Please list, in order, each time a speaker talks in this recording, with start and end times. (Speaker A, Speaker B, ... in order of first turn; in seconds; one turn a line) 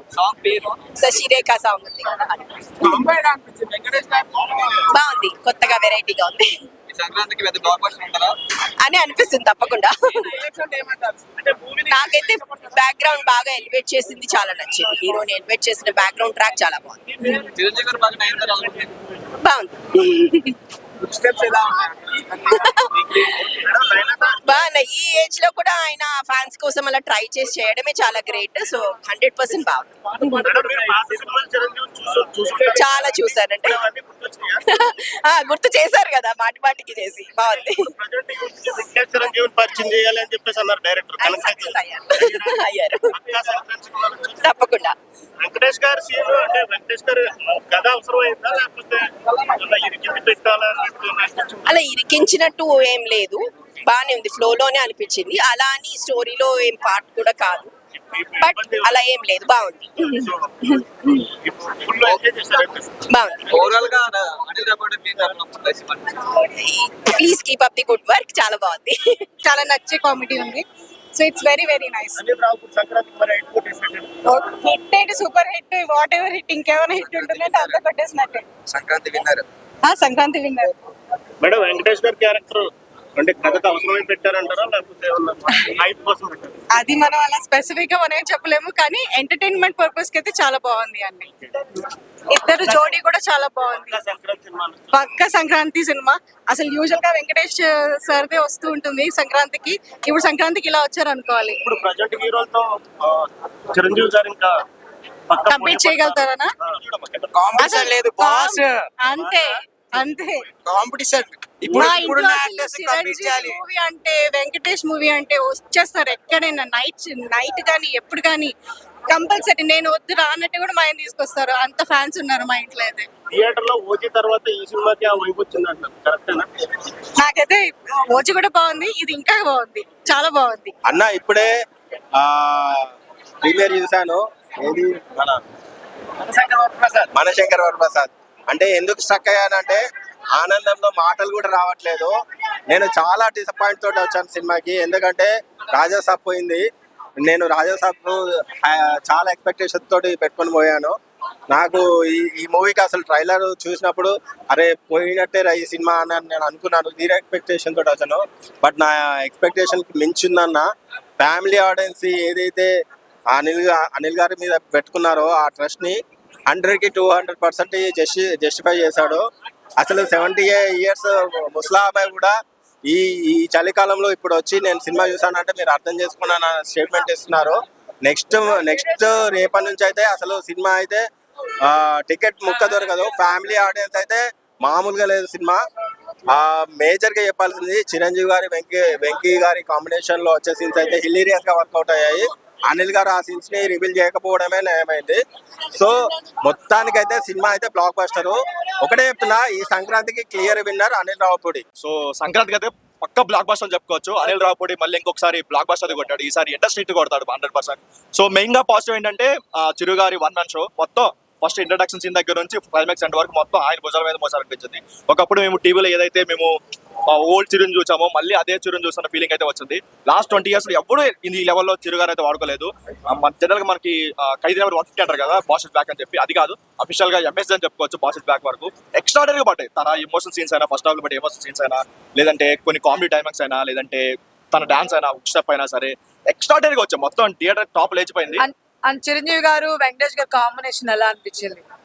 Speaker A: 0.2-0.7
Speaker B: 0.9-3.1
Speaker C: 3.0-4.2
Speaker B: 4.7-6.5
Speaker A: 6.9-8.3
Speaker B: 8.8-10.5
Speaker C: 10.5-11.0
Speaker B: 11.8-17.4
Speaker A: 17.5-18.9
Speaker B: 19.4-20.6
Speaker C: 21.2-21.4
Speaker B: 22.3-23.4
Speaker D: 23.6-24.4
Speaker B: 24.2-30.5
Speaker D: 30.4-34.8
Speaker B: 32.7-33.8
Speaker B: 34.6-37.8
Speaker D: 37.5-42.6
Speaker B: 41.2-43.0
Speaker D: 43.1-44.4
Speaker B: 44.4-44.9
Speaker D: 45.4-51.8
Speaker B: 51.6-57.7
Speaker D: 58.0-59.0
Speaker B: 58.4-61.3
Speaker D: 61.4-62.9
Speaker B: 63.1-63.5
Speaker A: 63.5-66.2
Speaker B: 66.2-69.3
Speaker C: 69.5-70.6
Speaker C: 71.1-72.2
Speaker D: 72.2-74.1
Speaker C: 74.3-80.7
Speaker E: 76.9-78.1
Speaker D: 81.4-86.6
Speaker C: 86.8-91.3
Speaker E: 90.0-90.4
Speaker C: 92.4-94.0
Speaker D: 92.6-93.0
Speaker D: 93.6-95.0
Speaker C: 95.0-101.5
Speaker D: 101.6-104.5
Speaker D: 105.3-107.3
Speaker C: 105.5-106.4
Speaker F: 106.8-107.1
Speaker C: 107.3-109.4
Speaker E: 107.6-108.6
Speaker C: 110.0-116.6
Speaker F: 111.7-112.2
Speaker E: 111.8-113.5
Speaker E: 114.6-115.3
Speaker E: 115.9-117.0
Speaker C: 117.1-118.5
Speaker C: 119.1-123.0
Speaker D: 123.3-126.8
Speaker C: 127.2-127.6
Speaker C: 128.1-130.7
Speaker G: 130.8-131.5
Speaker G: 132.2-132.9
Speaker G: 133.4-135.3
Speaker D: 136.2-137.1
Speaker G: 137.1-139.8
Speaker G: 140.3-142.1
Speaker G: 142.7-146.6
Speaker G: 147.2-150.9
Speaker G: 151.5-160.7
Speaker G: 161.2-162.7
Speaker G: 163.3-169.2
Speaker G: 169.8-172.3
Speaker G: 172.9-181.0
Speaker G: 181.6-185.6
Speaker G: 186.3-195.2
Speaker G: 195.7-201.6
Speaker F: 201.8-216.5
Speaker F: 217.1-238.4
Speaker E: 238.4-241.6